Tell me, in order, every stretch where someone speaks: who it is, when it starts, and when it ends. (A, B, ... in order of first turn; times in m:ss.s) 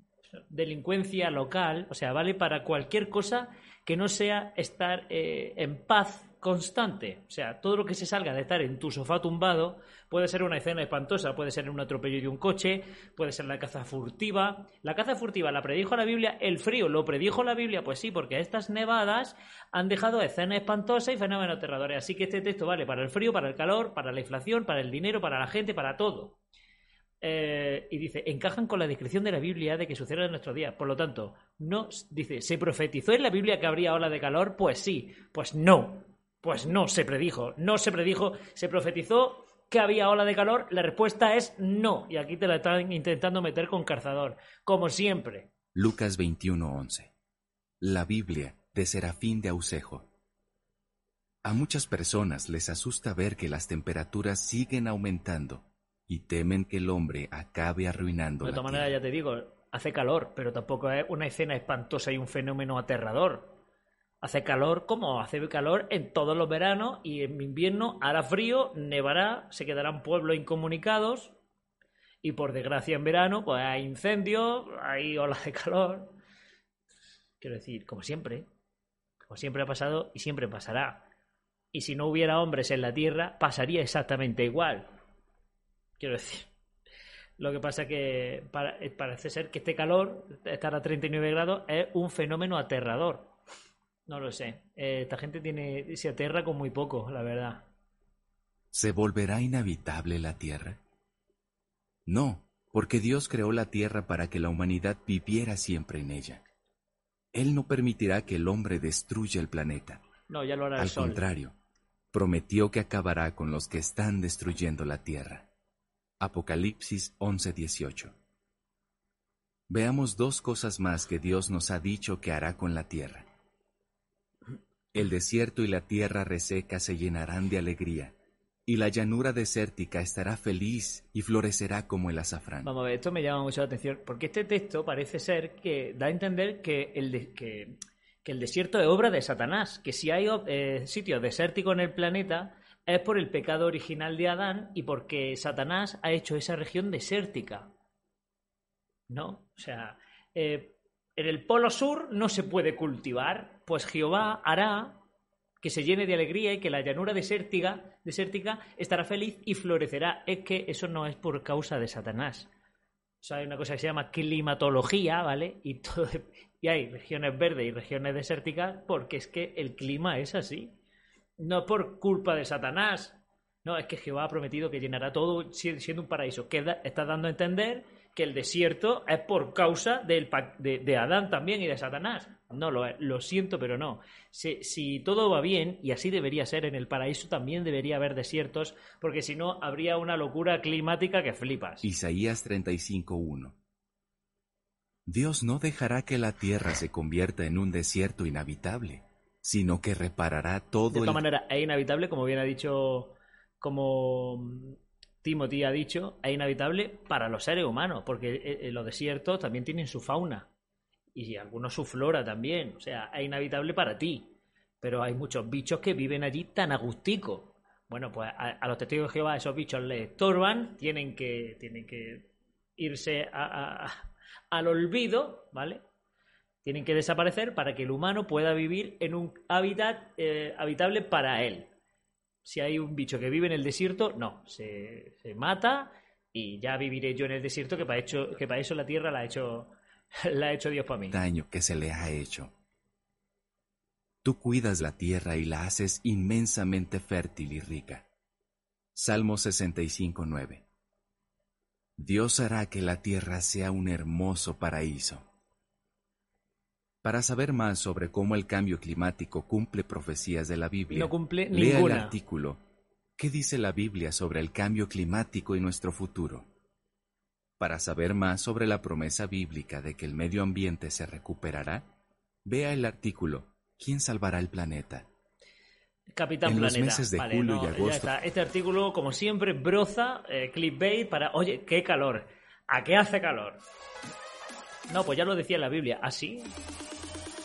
0:00.5-0:26.4 A
0:27.2-0:45.5 A
0:45.7-0:47.1 B
0:47.8-0:50.1 B
0:51.4-0:59.0 B
0:58.4-1:03.6 A
1:04.2-1:11.4 A
1:12.2-1:16.1 A
1:17.4-1:18.5 A
1:19.3-1:21.1 A
1:21.7-1:24.9 A
1:26.0-1:26.5 A
1:27.4-1:33.3 A
1:34.1-1:37.7 A
1:38.7-1:40.8 B
1:42.1-1:46.4 B
1:47.3-1:50.0 B
1:50.3-1:51.2 A
1:50.8-1:51.6 B
1:52.1-1:55.5 B
1:56.2-1:58.1 B
1:59.7-2:03.3 B
2:04.9-2:08.2 B
2:08.7-2:12.7 B
2:12.6-2:27.7 A
2:29.1-2:35.0 A
2:35.6-2:42.5 A
2:43.2-2:50.8 A
2:51.4-3:11.9 A
3:11.8-3:13.6 B
3:15.1-3:21.2 B
3:20.9-3:30.5 A
3:31.2-3:45.8 A
3:46.6-3:51.7 A
3:52.4-4:01.2 A
4:01.1-4:02.5 B
4:04.2-4:08.1 B
4:09.0-4:10.6 B
4:12.0-4:15.3 B
4:17.0-4:22.6 B
4:20.9-4:22.2 A
4:23.2-4:26.5 B
4:27.6-4:31.9 B
4:32.4-4:35.1 B
4:36.1-4:43.6 A
4:36.4-4:38.1 B
4:44.9-4:46.5 A